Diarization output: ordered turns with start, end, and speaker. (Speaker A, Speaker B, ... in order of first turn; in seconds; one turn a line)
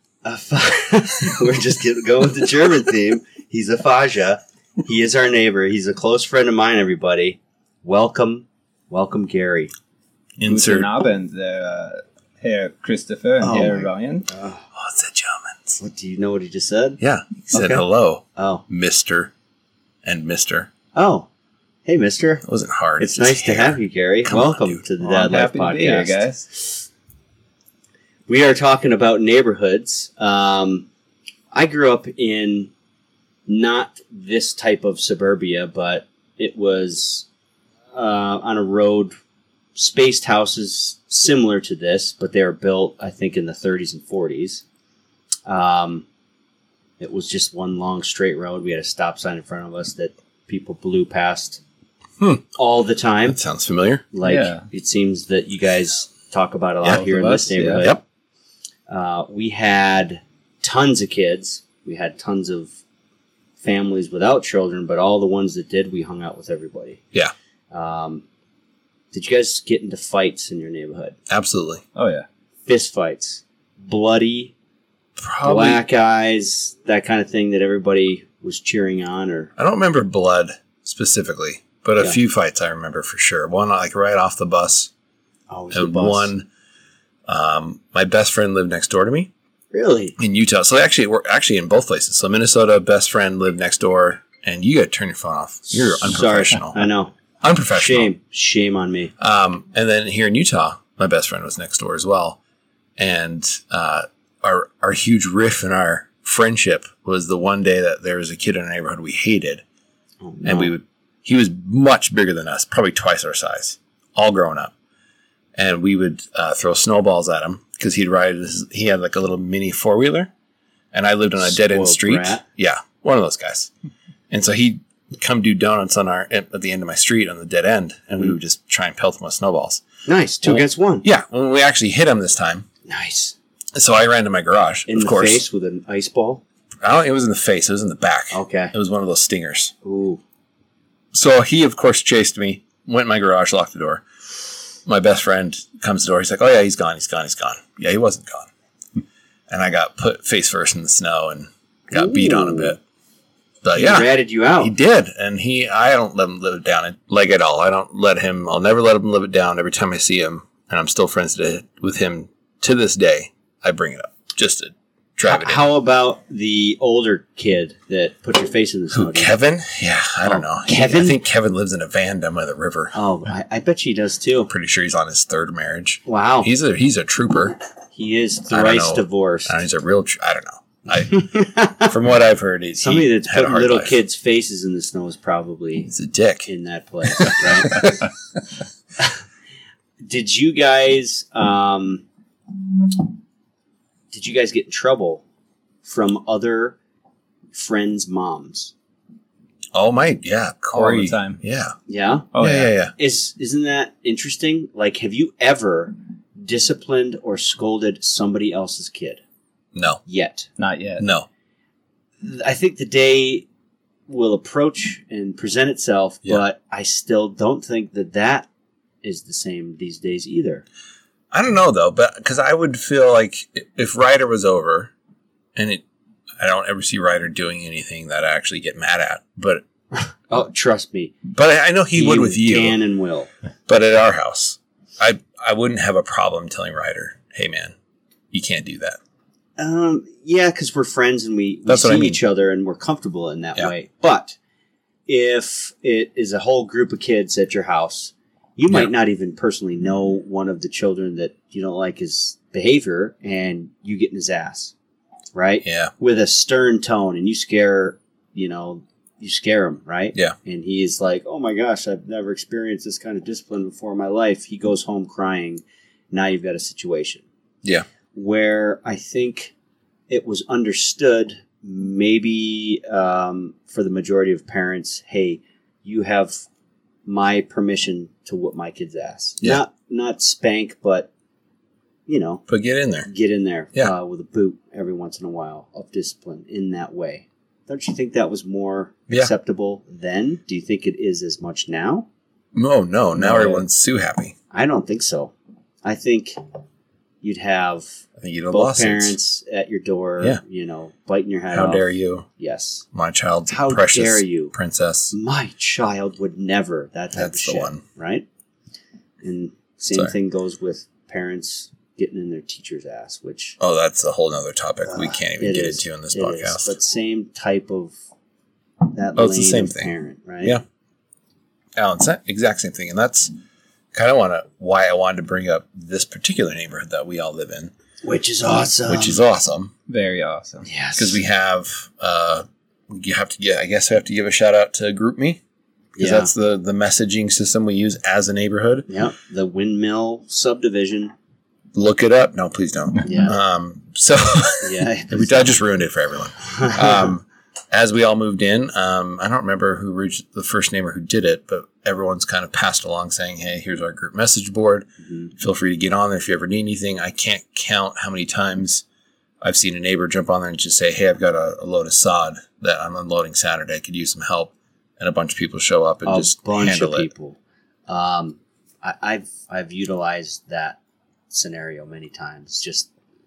Speaker A: 0.2-9.7
Speaker B: 10.4-10.9
Speaker C: 10.4-14.3
Speaker A: 13.4-14.7
Speaker B: 14.8-15.8
Speaker A: 15.8-17.9
Speaker B: 17.0-19.3
Speaker A: 18.4-18.6
Speaker B: 20.1-20.7
Speaker A: 20.9-21.3
Speaker A: 21.9-22.4
Speaker B: 22.4-24.8
Speaker A: 23.0-26.3
Speaker C: 25.0-26.5
Speaker A: 28.3-30.9
Speaker A: 31.5-32.7
Speaker A: 33.5-37.3
Speaker A: 37.9-39.2
Speaker A: 39.8-44.6
Speaker A: 45.5-46.1
Speaker A: 47.0-51.6
Speaker B: 52.2-52.5
Speaker A: 52.6-53.4
Speaker B: 53.3-54.1
Speaker A: 54.1-58.0
Speaker C: 54.2-54.7
Speaker C: 56.9-57.9
Speaker B: 57.8-58.0
Speaker A: 58.9-62.7
Speaker A: 63.6-67.0
Speaker A: 67.7-68.2
Speaker A: 69.1-71.2
Speaker B: 71.3-71.8
Speaker C: 72.0-72.3
Speaker A: 72.7-74.5
Speaker B: 75.2-75.8
Speaker A: 75.4-79.5
Speaker B: 79.6-84.9
Speaker A: 85.5-86.3
Speaker B: 85.7-86.5
Speaker B: 87.3-89.3
Speaker A: 89.7-90.2
Speaker B: 90.2-96.9
Speaker A: 96.0-97.1
Speaker B: 97.4-98.1
Speaker A: 97.7-99.1
Speaker B: 99.2-102.4
Speaker B: 103.0-109.6
Speaker A: 110.2-110.8
Speaker B: 110.4-114.7
Speaker B: 115.6-120.3
Speaker B: 120.9-123.7
Speaker A: 121.4-122.4
Speaker B: 124.3-129.8
Speaker A: 130.1-131.1
Speaker B: 130.4-132.7
Speaker A: 132.9-133.4
Speaker B: 133.7-135.5
Speaker A: 134.9-136.4
Speaker B: 136.8-139.7
Speaker A: 138.3-138.7
Speaker A: 139.8-140.2
Speaker B: 141.1-144.1
Speaker B: 144.8-152.8
Speaker A: 151.9-152.8
Speaker B: 153.6-165.6
Speaker A: 153.7-154.7
Speaker A: 165.3-169.3
Speaker B: 168.9-173.0
Speaker A: 170.2-171.2
Speaker A: 172.9-174.5
Speaker B: 174.5-177.6
Speaker A: 176.1-176.5
Speaker A: 177.9-179.6
Speaker B: 178.5-184.0
Speaker A: 180.9-181.9
Speaker A: 182.8-185.9
Speaker B: 185.9-186.5
Speaker A: 186.5-188.1
Speaker B: 187.1-188.0
Speaker A: 190.0-192.1
Speaker A: 194.1-195.2
Speaker A: 195.8-196.8
Speaker A: 197.5-198.7
Speaker B: 199.7-201.8
Speaker C: 200.7-201.4
Speaker A: 201.9-202.4
Speaker C: 202.3-202.7
Speaker B: 202.4-202.9
Speaker A: 202.9-209.2
Speaker B: 209.7-210.0
Speaker A: 210.1-210.5
Speaker C: 210.6-211.1
Speaker B: 211.0-211.3
Speaker A: 212.2-213.5
Speaker A: 214.1-218.5
Speaker A: 219.0-220.6
Speaker B: 221.3-224.9
Speaker B: 225.6-225.8
Speaker B: 226.4-229.7
Speaker A: 229.9-231.2
Speaker B: 231.3-232.8
Speaker A: 231.9-233.3
Speaker B: 233.7-237.8
Speaker B: 238.3-239.0
Speaker A: 239.6-244.4
Speaker B: 241.7-242.2
Speaker A: 245.1-254.7
Speaker A: 255.3-267.2
Speaker B: 255.6-255.9
Speaker A: 268.1-269.5
Speaker A: 270.1-276.4
Speaker A: 277.1-281.1
Speaker A: 282.1-282.4
Speaker B: 282.5-283.1
Speaker A: 283.1-292.1
Speaker B: 292.5-294.4
Speaker A: 293.2-293.6
Speaker A: 294.5-296.4
Speaker A: 297.2-302.9
Speaker B: 298.2-299.2
Speaker B: 301.5-302.3
Speaker B: 302.9-305.1
Speaker A: 303.5-304.5
Speaker A: 305.1-308.3
Speaker B: 307.1-307.8
Speaker A: 309.2-313.6
Speaker B: 313.6-316.8
Speaker A: 314.9-318.0
Speaker A: 318.9-320.6
Speaker B: 319.2-319.9
Speaker B: 321.8-323.3
Speaker B: 323.9-327.7
Speaker A: 328.0-329.2
Speaker B: 328.8-329.7
Speaker C: 329.9-330.7
Speaker A: 330.6-331.2
Speaker B: 331.0-335.4
Speaker A: 336.0-336.3
Speaker B: 336.0-338.9
Speaker A: 338.9-341.1
Speaker B: 341.7-358.9
Speaker A: 343.0-343.4
Speaker A: 344.6-345.6
Speaker A: 346.4-347.1
Speaker A: 355.0-355.3
Speaker B: 359.4-367.1
Speaker A: 366.1-370.8
Speaker A: 371.3-372.9